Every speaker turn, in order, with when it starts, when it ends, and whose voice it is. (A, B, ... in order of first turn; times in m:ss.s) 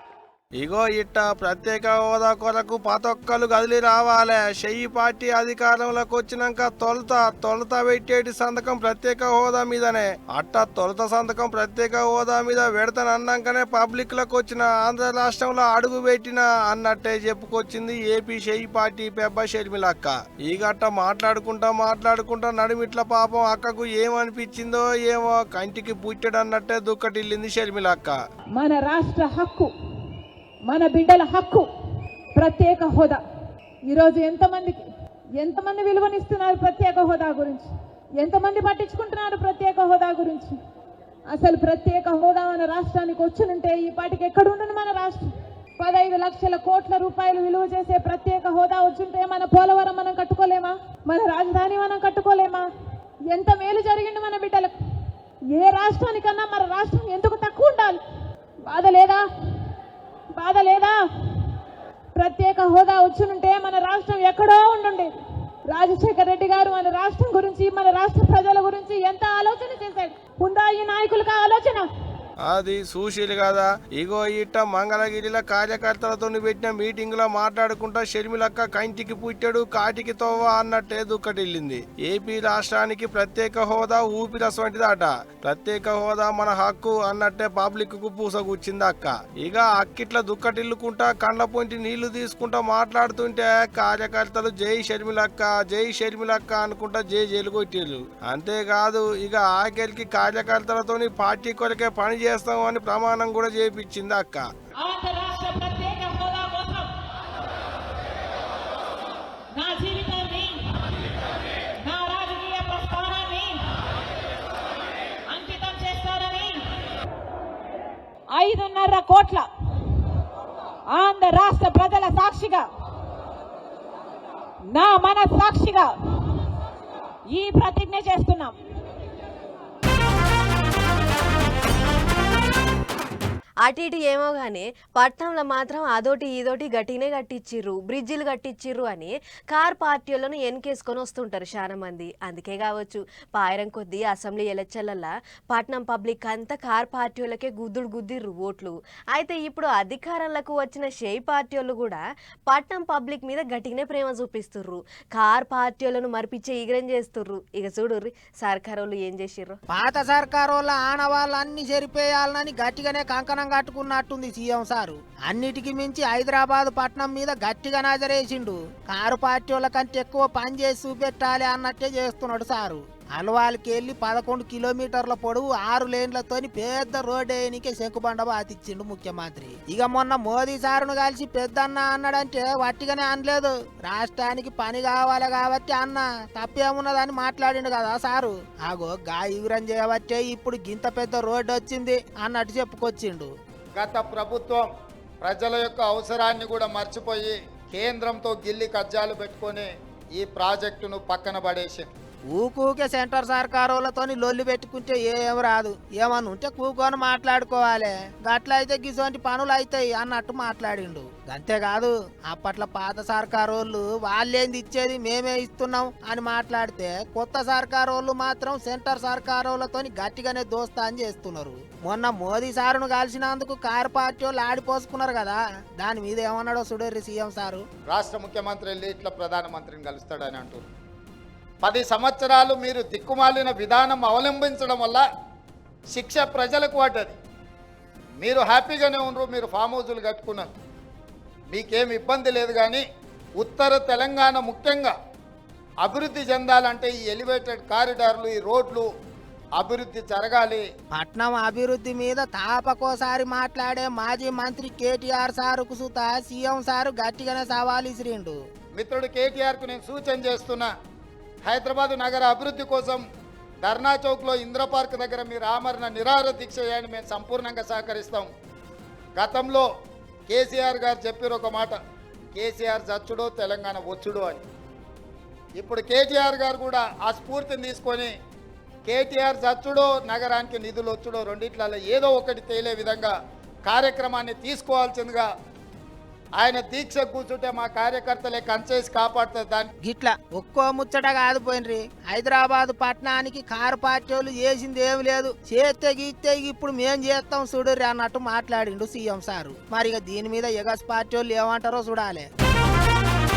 0:00.6-0:28.2 A
0:28.6-0:29.7 B
0:30.7-0:31.7 B
0:32.4-0:33.2 B
0:33.9-0:34.8 B
0:35.4-0:37.7 B
0:38.2-0:40.5 B
0:41.3-0:45.2 B
0:45.8-0:52.6 B
0:53.3-0:54.7 B
0:55.5-0:58.0 B
0:58.7-0:59.2 B
1:00.4-1:01.0 B
1:02.2-1:05.1 B
1:05.7-1:11.8 B
1:12.5-1:44.4 A
1:44.8-1:46.9 B
1:49.5-1:50.6 B
1:51.8-1:53.6 B
1:55.3-1:56.6 B
1:58.3-1:59.5 B
2:00.9-2:02.6 B
2:04.7-2:05.9 B
2:07.3-2:08.5 B
2:13.6-2:39.6 C
2:39.7-3:13.3 D
3:13.8-3:14.7 E
3:15.2-3:21.9 E
3:22.3-3:47.6 D
3:47.9-3:50.6 E
3:51.6-3:55.0 E
3:55.9-3:57.2 E
3:58.2-4:00.5 E
4:01.5-4:02.8 E
4:03.4-4:04.9 E
4:05.8-4:08.9 E
4:09.6-4:10.6 E
4:10.9-4:18.4 D
4:18.7-4:20.7 E
4:21.4-4:23.0 E
4:23.6-4:28.3 E
4:29.2-4:29.7 E
4:30.3-4:31.8 E
4:32.3-4:34.4 E
4:35.6-4:38.1 E
4:38.8-4:43.1 E
4:43.6-4:45.3 E
4:46.4-4:49.7 E
4:49.8-5:02.3 D